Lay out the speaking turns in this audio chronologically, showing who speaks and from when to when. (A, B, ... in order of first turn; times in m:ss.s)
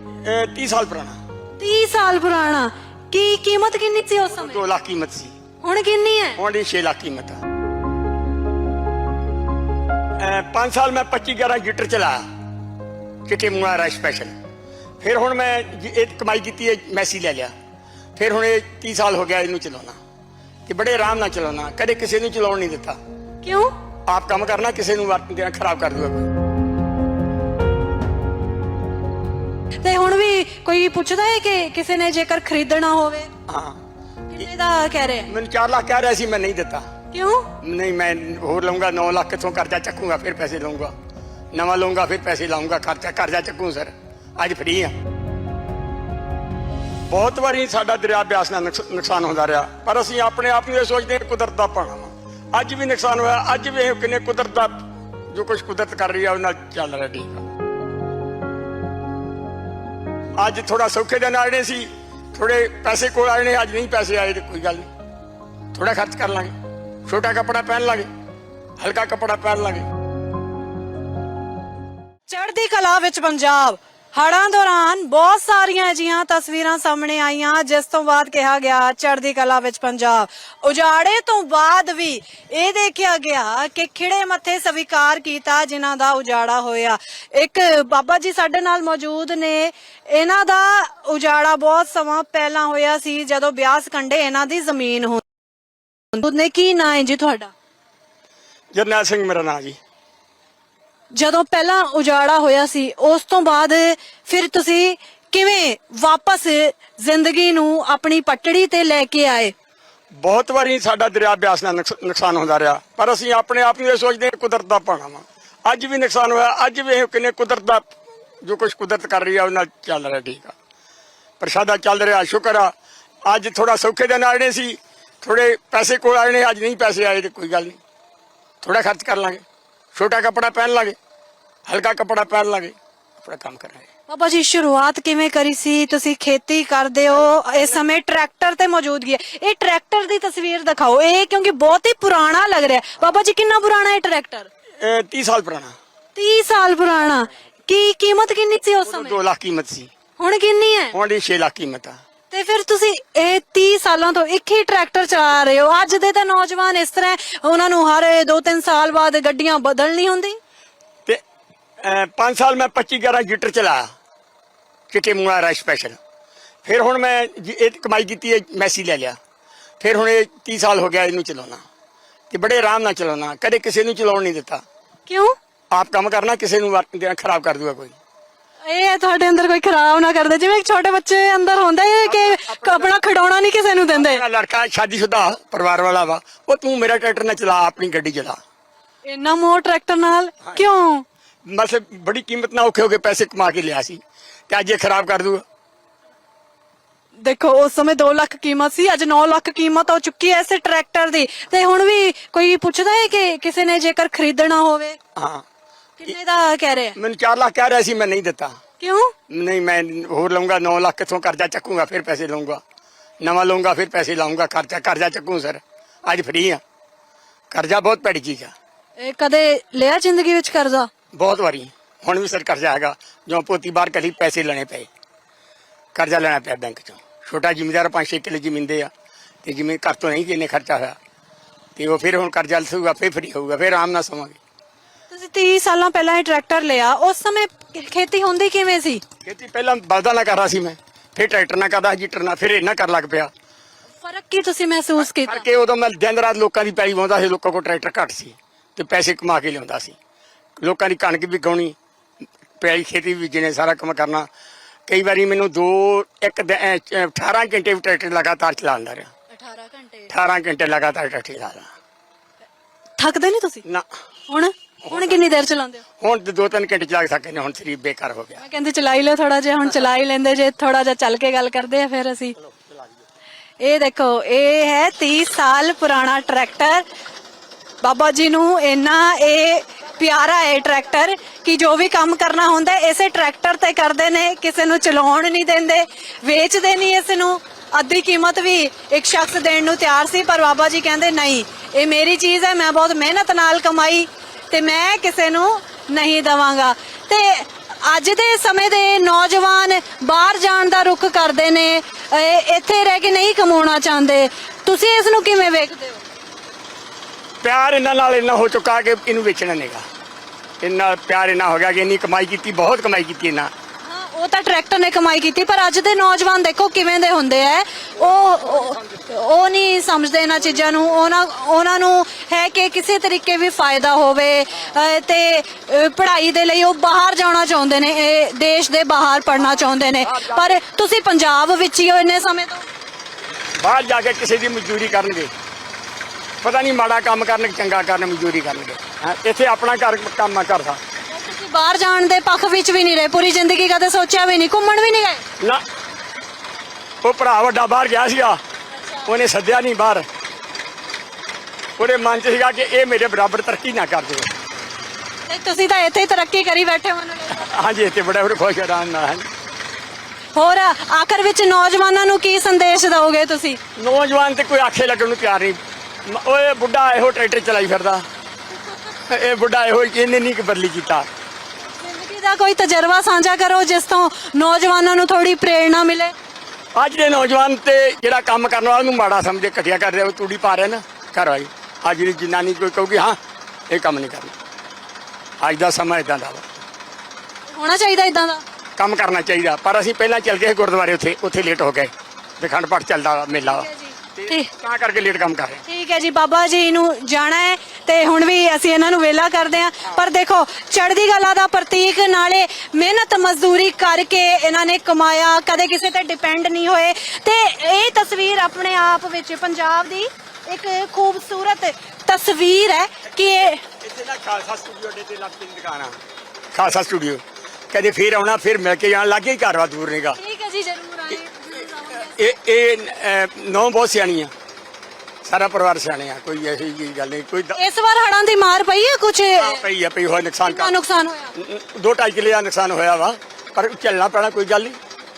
0:00.2-0:01.2 A
0:01.6-0:04.6 B
0:04.3-0:05.3 A
0:05.6-0:06.4 B
0:06.4-0:07.4 A
0:10.2-0:12.2 A
0:13.3-0:14.3 A
0:15.0-0:17.5 A
0:18.2-0:20.0 A
0:20.7-0:23.0 A
0:23.4-0:23.7 B
0:24.1-0:26.3 A
0:29.8-0:33.3 B
0:33.5-0:33.8 A
0:34.3-0:35.3 B
0:35.3-0:36.9 A
0:37.1-0:37.5 B
0:37.6-0:40.9 A
0:41.5-0:44.9 A
0:47.1-0:57.5 A
1:00.4-1:04.9 A
1:05.7-1:06.5 A
1:07.1-1:08.1 A
1:08.8-1:09.9 A
1:12.3-1:35.2 B
1:36.1-1:37.5 B
1:38.8-1:39.8 A
1:41.1-1:49.5 B
1:50.2-2:00.6 A
2:01.4-2:02.7 A
2:03.3-2:07.8 A
2:08.6-2:11.0 A
2:11.7-2:13.9 A
2:14.1-2:24.5 B
2:17.1-2:17.8 A
2:24.8-2:25.8 A
2:26.2-2:29.2 B
2:28.9-2:29.9 A
2:30.2-2:31.0 B
2:30.9-2:32.0 A
2:32.3-2:40.4 B
2:41.8-2:43.9 A
2:44.9-2:46.0 A
2:46.6-2:49.2 A
2:49.8-2:51.6 A
2:52.3-2:54.6 A
2:55.1-2:55.4 B
2:55.7-2:58.0 A
2:58.7-3:04.2 B
3:02.0-3:03.0 A
3:03.9-3:08.4 A
3:09.1-3:11.0 B
3:11.5-3:15.4 A
3:17.2-3:25.0 B
3:25.2-3:25.4 A
3:26.0-3:27.0 B
3:27.0-3:28.6 A
3:28.8-3:29.2 B
3:29.3-3:32.6 A
3:33.2-3:36.6 A
3:37.5-3:38.5 A
3:39.0-3:40.9 B
3:41.2-3:44.9 A
3:46.0-3:48.9 A
3:49.4-3:51.0 A
3:51.8-3:54.4 A
3:55.1-3:59.0 B
3:59.2-4:03.3 A
4:04.0-4:05.4 B
4:05.0-4:10.0 A
4:10.6-4:11.8 A
4:12.6-4:14.3 A
4:14.9-4:19.1 A
4:19.3-4:20.1 B
4:20.1-4:21.7 A
4:23.0-4:23.6 B
4:24.3-4:25.8 B
4:24.8-4:25.2 A
4:26.0-4:28.4 A
4:28.4-4:32.4 B
4:32.4-4:33.0 A
4:33.6-4:36.8 B
4:37.8-5:06.0 B
5:07.4-5:09.8 A
5:10.6-5:13.5 A
5:13.8-5:32.6 B
5:18.0-5:19.1 A
5:29.4-5:30.5 A
5:33.6-5:35.3 A
5:36.4-5:40.8 A
5:41.1-5:45.2 B
5:47.0-5:48.4 A
5:48.7-5:49.1 B
5:49.1-5:50.1 A
5:51.8-5:54.3 A
5:55.3-5:57.6 B
5:57.3-5:59.3 A
6:00.4-6:03.6 B
6:03.8-6:08.1 A
6:09.1-6:11.1 A
6:11.7-6:16.1 B
6:16.8-6:23.2 A
6:23.7-6:24.4 A
6:25.4-6:26.5 A
6:27.5-6:28.4 B
6:28.8-6:35.6 A
6:33.4-6:34.5 B
6:35.7-6:53.6 B
6:53.8-6:56.0 A
6:56.5-7:00.2 A
7:00.2-7:02.2 B
7:01.9-7:04.3 A
7:05.2-7:07.6 A
7:07.6-7:09.6 B
7:09.4-7:10.8 A
7:10.4-7:11.3 B
7:11.4-7:14.8 A